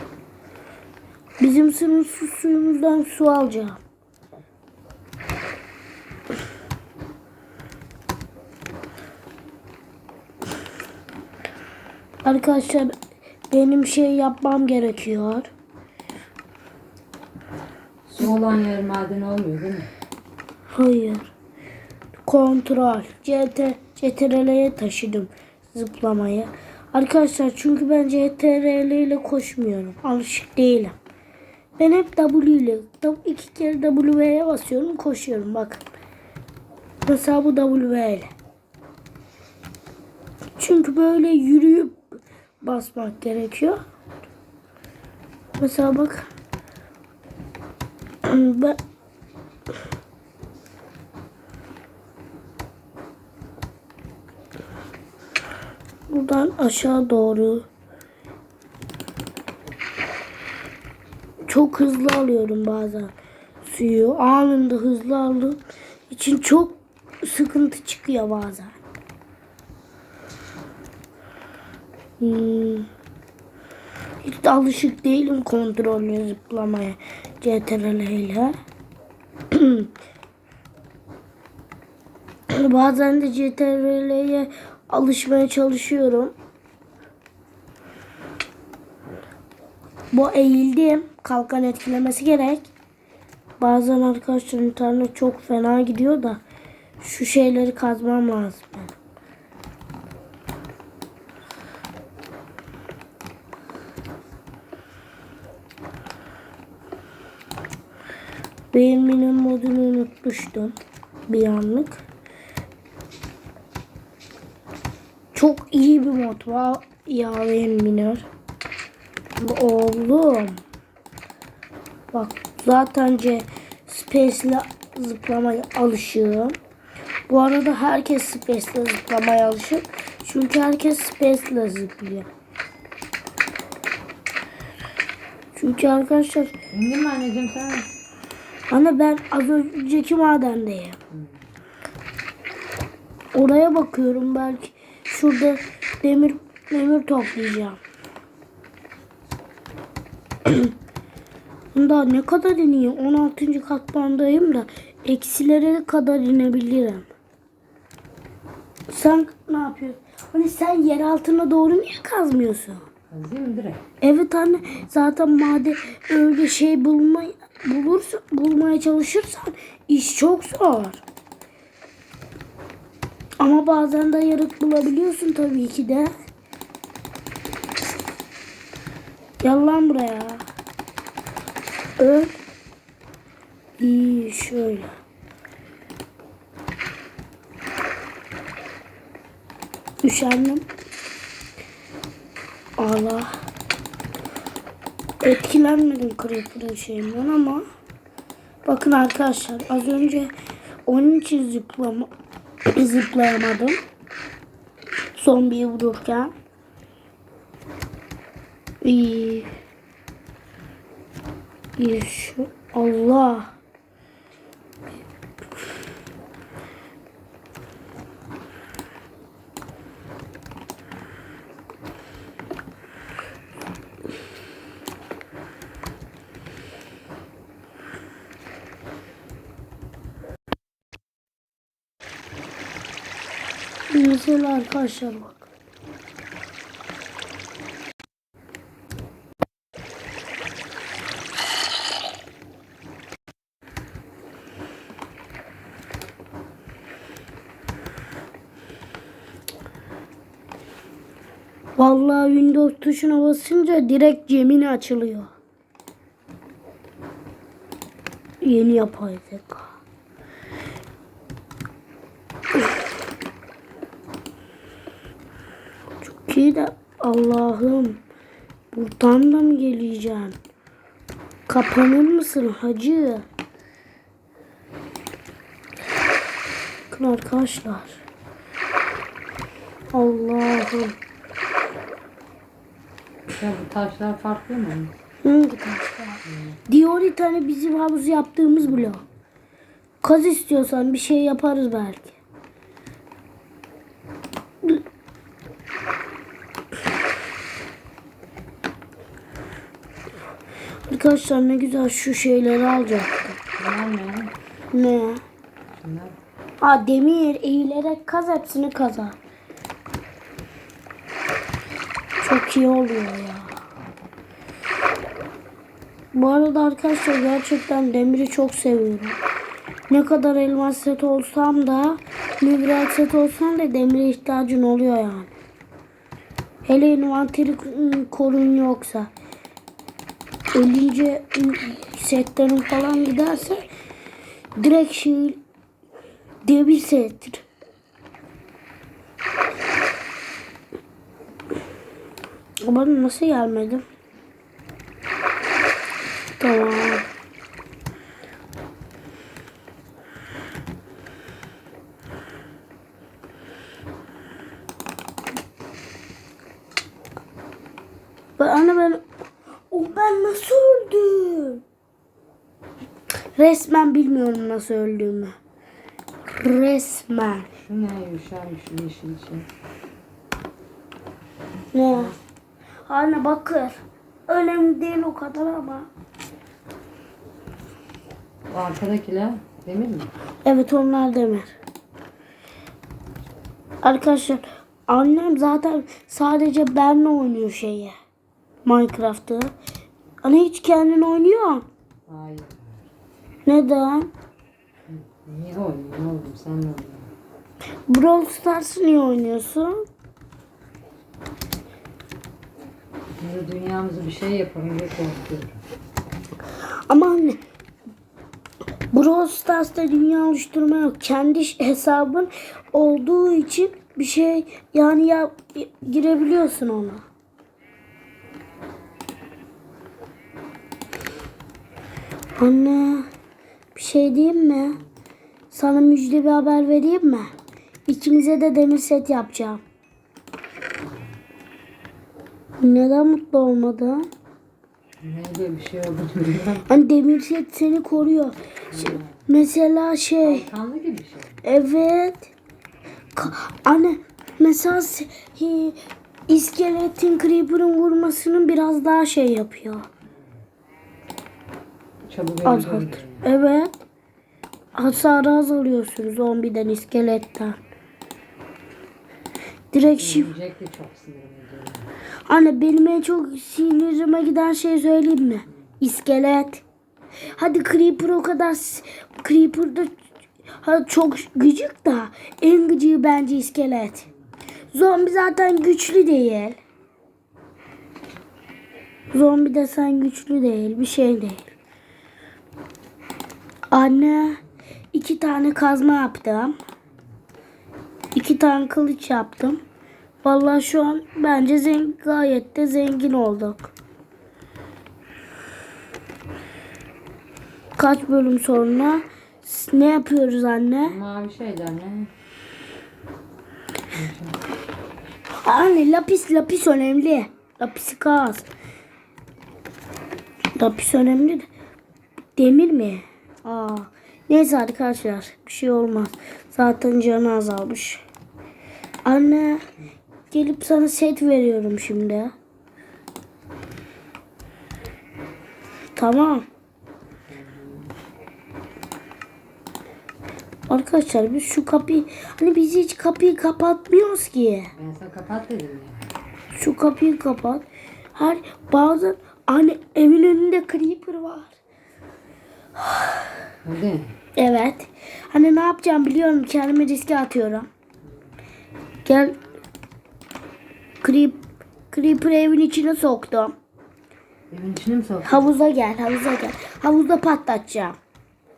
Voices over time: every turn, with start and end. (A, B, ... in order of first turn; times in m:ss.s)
0:01.4-0:03.8 A
0:12.2-0:12.9 A
0:13.5-0:15.5 A
0:18.1-0:19.9 B
0:20.7-0:21.3 A
0:22.2-0:31.0 A
0:31.8-0:35.8 A
0:37.0-0:38.3 A
0:40.6-0:43.8 A
0:45.6-0:46.3 A
0:48.2-0:48.8 A
0:56.1-0:57.6 A
1:01.5-1:03.1 A
1:03.6-1:08.8 A
1:12.2-1:12.9 A
1:14.2-1:18.6 A
1:19.5-1:19.9 A
1:22.5-1:26.3 A
1:30.1-1:32.7 A
1:33.6-1:36.4 A
1:37.0-1:39.0 A
1:48.7-1:50.8 A
1:51.3-1:52.0 A
1:55.3-1:58.3 A
1:59.4-2:00.6 A
2:02.1-2:06.6 A
2:07.3-2:12.3 A
2:15.6-2:16.5 A
2:16.7-2:17.9 B
2:18.7-2:21.0 A
2:21.1-2:21.4 B
2:23.3-2:27.8 A
2:30.4-2:30.7 A
2:31.7-2:37.1 A
2:38.9-2:42.8 A
2:43.1-2:43.8 B
2:44.0-2:51.0 A
2:53.4-2:56.1 A
2:59.4-3:00.4 A
3:02.0-3:02.3 A
3:03.8-3:04.9 A
3:10.0-3:10.6 A
3:12.8-3:13.3 A
3:15.2-3:17.6 A
3:18.6-3:20.3 A
3:20.8-3:22.1 A
3:22.7-3:23.8 A
3:25.2-3:26.3 A
3:28.8-3:29.5 A
3:31.8-3:33.5 A
3:53.9-3:55.5 A
4:11.8-4:15.3 A
4:18.4-4:19.7 A
4:26.0-4:28.0 A
4:28.7-4:30.4 A
4:31.5-4:33.2 A
4:36.9-4:38.0 A
4:39.9-4:41.0 A
4:43.3-4:44.9 B
4:45.2-4:49.0 A
4:46.3-4:46.6 B
4:50.0-4:52.1 A
5:00.9-5:03.4 A
5:03.6-5:04.3 B
5:04.7-5:05.2 A
5:05.7-5:06.2 B
5:06.6-5:09.2 A
5:12.2-5:13.5 A
5:16.1-5:19.2 A
5:19.9-5:25.3 A
5:26.6-5:29.1 A
5:30.5-5:33.6 A
5:34.6-5:35.4 A
5:36.4-5:37.4 A
5:42.6-5:43.8 A
5:46.4-5:47.0 A
5:58.4-5:59.0 A
5:59.7-6:01.6 A
6:03.4-6:05.3 A
6:06.3-6:07.5 A
6:07.6-6:09.5 B
6:11.7-6:12.1 A
6:12.8-6:15.9 A
6:18.5-6:20.1 B
6:20.4-6:21.5 A
6:23.8-6:27.9 A
6:28.6-6:29.5 A
6:30.2-6:31.6 A
6:32.1-6:32.8 B
6:33.4-6:34.1 A
6:34.9-6:37.1 B
6:37.9-6:39.8 A
6:43.2-6:45.6 B
6:46.9-6:47.4 A
6:48.9-6:57.0 A
7:02.4-7:03.1 A
7:03.7-7:04.8 A
7:05.5-7:07.3 A
7:07.9-7:09.6 A
7:10.8-7:11.1 B
7:12.6-7:14.1 A
7:15.0-7:16.7 B
7:16.7-7:20.5 A
7:18.7-7:19.2 B
7:20.2-7:21.4 B
7:21.4-7:22.3 A
7:23.2-7:25.8 A
7:26.3-7:29.9 A
7:30.0-7:30.4 B
7:32.0-7:33.2 B
7:32.4-7:33.7 A
7:34.7-7:37.6 A
7:39.7-7:40.3 A
7:39.8-7:41.9 B
7:42.3-7:46.6 A
7:47.2-7:47.7 B
7:47.3-7:49.9 A
7:50.6-7:54.1 A
7:54.7-7:56.6 A
7:59.1-8:01.5 A
8:03.7-8:04.4 A
8:04.9-8:06.5 A
8:08.1-8:09.6 A
8:10.2-8:13.7 A
8:17.8-8:21.0 A
8:20.8-8:22.1 B
8:23.9-8:24.4 B
8:25.4-8:28.5 A
8:30.6-8:31.5 A
8:32.4-8:38.0 A
8:39.0-8:39.6 A
8:40.3-8:42.3 A
8:46.0-8:46.4 A
8:47.3-8:47.9 B
8:50.7-8:54.7 A
8:54.8-8:56.1 B
8:56.5-9:01.6 A
9:02.8-9:03.2 A
9:03.6-9:04.2 B
9:04.4-9:07.7 A
9:09.0-9:09.4 A
9:11.0-9:13.6 A
9:14.5-9:15.5 B
9:15.2-9:18.0 A